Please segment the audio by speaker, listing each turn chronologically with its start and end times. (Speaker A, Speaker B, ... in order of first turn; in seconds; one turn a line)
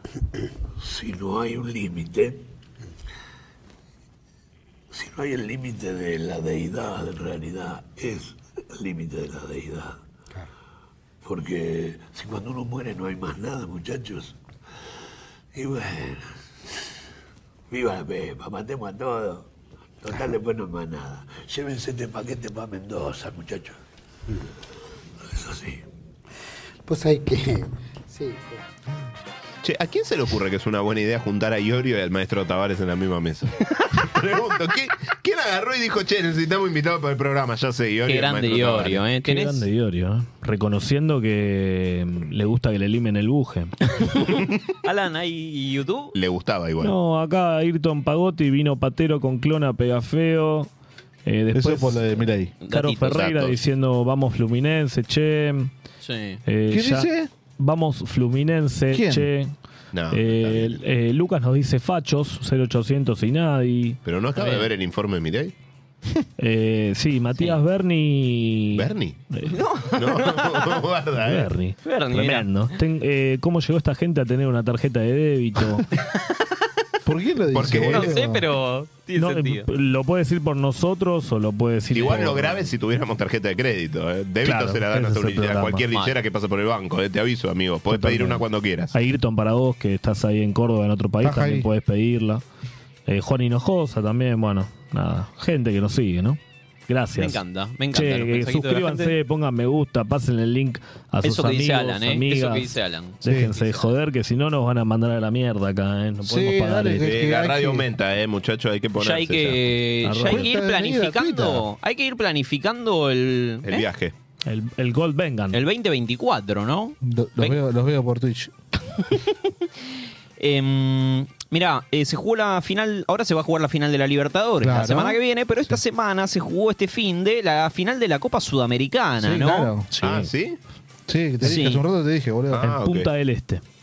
Speaker A: 0.8-2.5
Speaker A: 4.9-10.0
Speaker A: 11.2-14.3
Speaker A: 15.5-16.4
Speaker A: 17.7-19.5
Speaker A: 20.0-23.8
Speaker A: 25.3-25.8
Speaker B: 29.6-39.0
Speaker C: 38.1-39.6
Speaker D: 39.2-43.7
Speaker C: 44.0-46.1
Speaker B: 46.1-46.9
Speaker D: 46.8-50.7
Speaker D: 51.2-52.1
Speaker E: 51.5-52.5
Speaker C: 52.6-53.3
Speaker D: 52.7-55.7
Speaker B: 53.1-53.6
Speaker C: 56.0-56.4
Speaker D: 56.4-59.5
Speaker E: 56.7-57.3
Speaker E: 58.9-59.3
Speaker B: 59.9-60.8
Speaker D: 60.1-64.0
Speaker B: 64.0-65.5
Speaker C: 64.4-64.7
Speaker D: 66.4-69.6
Speaker B: 68.7-69.2
Speaker C: 69.5-70.8
Speaker B: 69.9-71.5
Speaker D: 71.2-75.8
Speaker C: 71.8-72.5
Speaker E: 77.0-78.5
Speaker B: 77.5-78.2
Speaker C: 77.7-79.7
Speaker D: 79.2-82.7
Speaker B: 81.9-88.9
Speaker D: 84.4-85.8
Speaker D: 87.9-92.4
Speaker E: 91.2-91.7
Speaker D: 93.0-107.2
Speaker C: 97.2-99.1
Speaker C: 101.2-103.9
Speaker E: 103.2-103.5
Speaker E: 106.2-107.8
Speaker B: 107.0-109.6
Speaker C: 109.0-113.8
Speaker D: 110.0-110.5
Speaker E: 110.2-111.6
Speaker B: 113.6-114.1
Speaker D: 114.4-115.6
Speaker C: 115.5-117.6
Speaker E: 117.0-118.5
Speaker C: 120.4-129.7
Speaker E: 124.6-125.2
Speaker E: 129.2-129.9
Speaker D: 129.9-130.3
Speaker B: 130.0-130.6
Speaker E: 131.1-132.8
Speaker C: 131.4-131.8
Speaker B: 132.5-133.1
Speaker D: 132.8-133.6